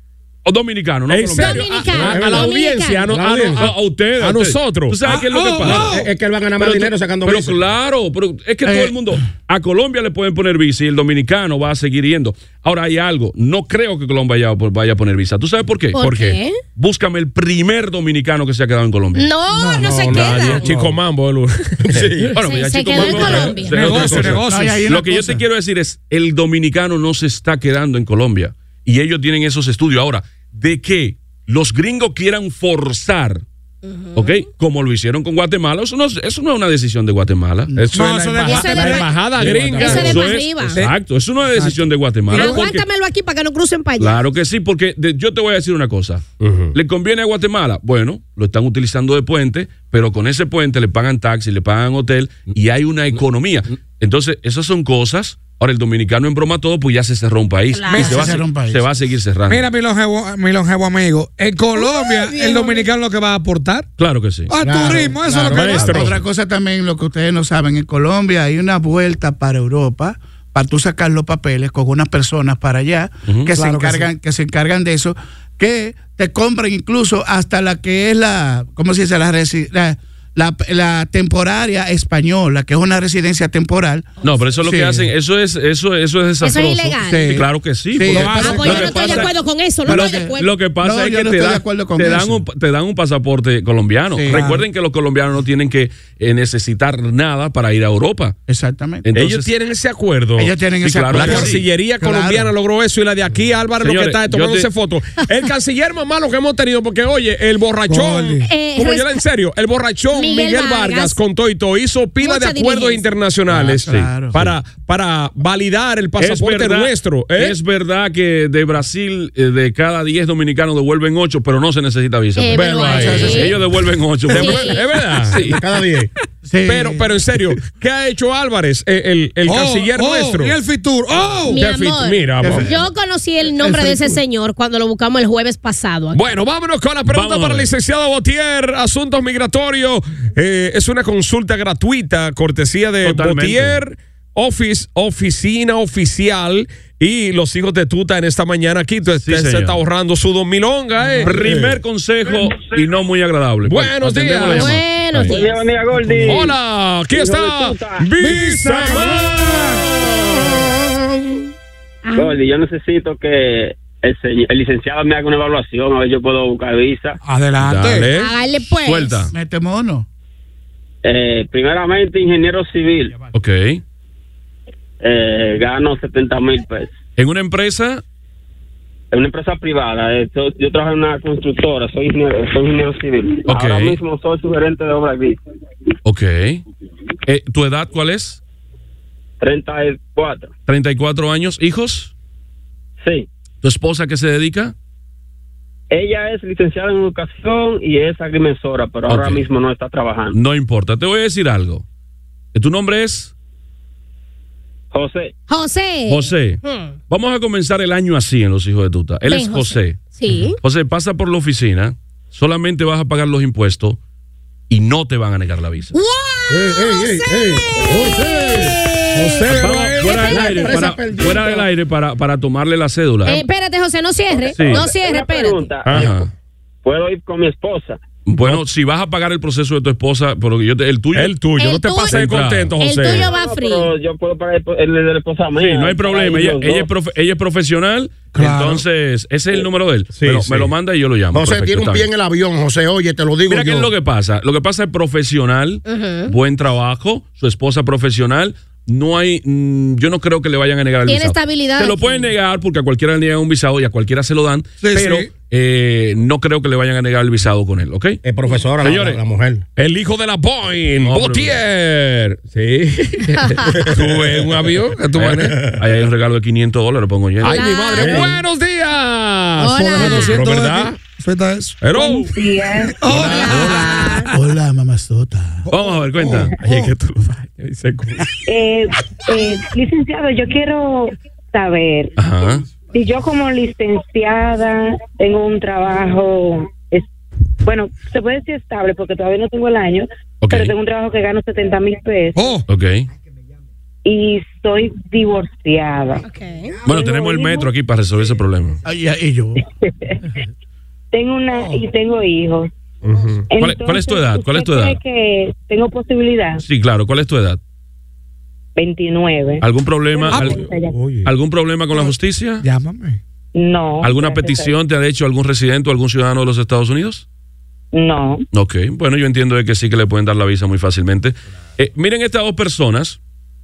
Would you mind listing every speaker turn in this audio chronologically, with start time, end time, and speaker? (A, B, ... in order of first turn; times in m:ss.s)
0:00.4-0:02.1 A
0:01.1-0:05.0 B
0:01.4-0:03.1 C
0:02.0-0:02.5 D
0:03.1-0:03.7 D
0:03.5-0:06.0 A
0:05.0-0:06.1 E
0:05.6-0:07.6 D
0:06.6-0:19.2 A
0:08.6-0:09.2 F
0:15.9-0:16.6 C
0:19.1-0:20.7 C
0:19.5-0:20.2 F
0:19.8-0:22.3 B
0:21.8-0:22.3 D
0:22.3-0:33.4 A
0:22.4-0:24.2 C
0:23.0-0:23.5 B
0:23.7-0:24.8 E
0:24.1-0:25.4 F
0:33.8-0:34.4 C
0:34.1-0:37.7 A
0:37.7-0:38.0 F
0:37.7-0:40.5 B
0:37.9-0:39.1 E
0:38.4-0:39.1 C
0:39.4-0:42.8 A
0:39.4-0:39.7 D
0:39.7-0:40.8 C
0:39.8-0:40.1 E
0:41.5-0:42.7 E
0:42.3-0:44.2 C
0:44.0-0:59.6 A
0:46.4-0:46.7 B
0:57.7-0:58.4 C
0:57.9-0:58.3 E
0:58.0-0:58.9 F
0:59.5-1:03.9 E
1:01.8-1:02.9 C
1:04.0-1:04.5 A
1:04.5-1:06.1 E
1:04.6-1:06.0 D
1:04.6-1:25.1 F
1:05.5-1:06.1 B
1:13.3-1:13.5 A
1:13.5-1:14.1 E
1:24.2-1:38.3 A
1:26.4-1:27.4 C
1:27.0-1:29.3 F
1:28.1-1:30.5 C
1:29.8-1:32.4 F
1:34.1-1:34.5 F
1:34.3-1:34.6 E
1:38.5-1:39.0 F
1:39.0-1:39.5 A
1:39.1-1:40.5 B
1:40.4-1:42.5 F
1:40.8-1:41.6 A
1:41.1-1:57.6 B
1:43.8-1:44.7 A
1:47.9-1:48.4 E
1:48.4-1:49.2 C
1:50.1-1:51.2 C
1:52.2-1:53.0 C
1:53.5-1:54.4 F
1:53.8-1:54.5 A
1:56.2-2:05.6 A
2:02.4-2:03.6 C
2:02.5-2:03.5 B
2:02.8-2:03.6 F
2:04.3-2:05.4 B
2:04.3-2:04.9 C
2:05.4-2:06.1 D
2:06.4-2:07.3 F
2:06.6-2:10.6 B
2:09.4-2:11.6 E
2:11.5-2:16.2 C
2:11.5-2:12.8 B
2:12.4-2:12.8 F
2:13.6-2:14.2 F
2:16.1-2:31.7 B
2:17.0-2:17.7 A
2:23.0-2:23.8 A
2:29.2-2:29.8 A
2:31.0-2:31.4 E
2:31.2-2:35.4 A
2:33.6-2:34.8 B
2:34.5-2:35.5 C
2:35.3-2:36.6 G
2:36.2-2:40.8 B
2:37.1-2:38.1 G
2:38.2-2:39.8 E
2:42.0-2:42.4 C
2:42.2-2:47.2 G
2:47.2-2:48.1 E
2:47.6-2:48.0 A
2:47.8-2:48.3 B
2:48.1-2:49.2 C
2:48.8-2:49.3 A
2:49.3-2:50.1 F
2:51.0-2:53.2 G
2:53.3-2:53.8 A
2:55.0-2:56.9 G
2:57.2-2:58.0 A
2:59.1-3:05.4 G
3:03.5-3:04.0 A
3:06.0-3:06.6 A
3:07.2-3:08.4 A
3:09.4-3:10.5 G
3:10.7-3:12.1 A
3:13.0-3:13.3 G
3:13.6-3:14.7 A
3:15.9-3:20.4 G
3:19.1-3:19.5 A
3:20.3-3:21.8 A
3:22.5-3:23.3 A
3:24.9-3:25.3 G
3:25.5-3:26.9 C
3:26.1-3:30.1 A
3:29.2-3:30.6 C
3:30.6-3:34.0 A
3:34.7-3:35.9 A
3:35.9-3:40.8 C
3:36.5-3:38.8 D
3:39.1-3:40.6 B
3:39.5-3:43.4 A
3:40.3-3:41.7 D
3:43.2-3:45.7 C
3:44.3-3:46.1 G
3:44.6-3:44.9 A
3:45.8-3:46.2 B
3:45.9-3:46.3 A
3:46.8-3:48.0 G
3:48.2-3:51.4 A
3:51.1-3:53.3 B
3:51.5-3:52.2 C
3:52.1-3:52.8 A
3:52.8-3:53.9 C
3:53.2-3:56.9 G
3:55.6-4:02.1 A
3:58.3-3:58.8 E
4:00.1-4:00.7 B
4:01.3-4:03.9 D
4:03.5-4:18.2 A
4:05.8-4:06.3 C
4:11.0-4:12.3 C
4:14.8-4:15.3 E
4:18.2-4:19.6 D
4:18.8-4:19.2 A
4:19.8-4:25.7 B
4:21.0-4:21.6 A
4:25.2-4:25.8 D
4:25.6-4:28.2 A
4:27.4-4:31.0 B
4:27.4-4:28.4 C
4:29.6-4:30.4 C
4:29.8-4:31.8 E
4:31.8-4:32.3 B
4:31.9-4:33.1 H
4:33.0-4:34.3 E
4:33.1-4:33.9 B
4:33.1-4:34.3 C
4:34.2-4:35.7 F
4:35.7-4:36.8 E
4:35.7-4:37.2 A
4:36.6-4:38.3 B
4:38.4-4:42.1 H
4:42.2-4:42.6 A
4:42.8-4:47.1 H
4:47.6-4:52.6 H
4:50.4-4:50.7 A
4:52.4-4:52.6 E
4:52.7-4:53.1 A
4:54.0-4:56.2 H
4:56.2-4:56.8 C
4:56.8-4:57.7 H
4:56.8-4:58.8 A
4:58.8-4:59.6 F
4:59.8-5:00.3 H
5:01.1-5:02.7 H
5:01.5-5:01.8 E
5:03.0-5:03.5 B
5:03.5-5:06.6 H
5:03.6-5:05.0 A
5:06.6-5:07.6 A
5:08.8-5:11.0 H
5:09.6-5:10.6 A
5:10.3-5:10.7 E
5:11.2-5:12.6 A
5:12.6-5:13.2 E
5:13.5-5:14.7 H
5:14.0-5:17.2 A
5:17.9-5:18.4 H
5:18.5-5:23.2 A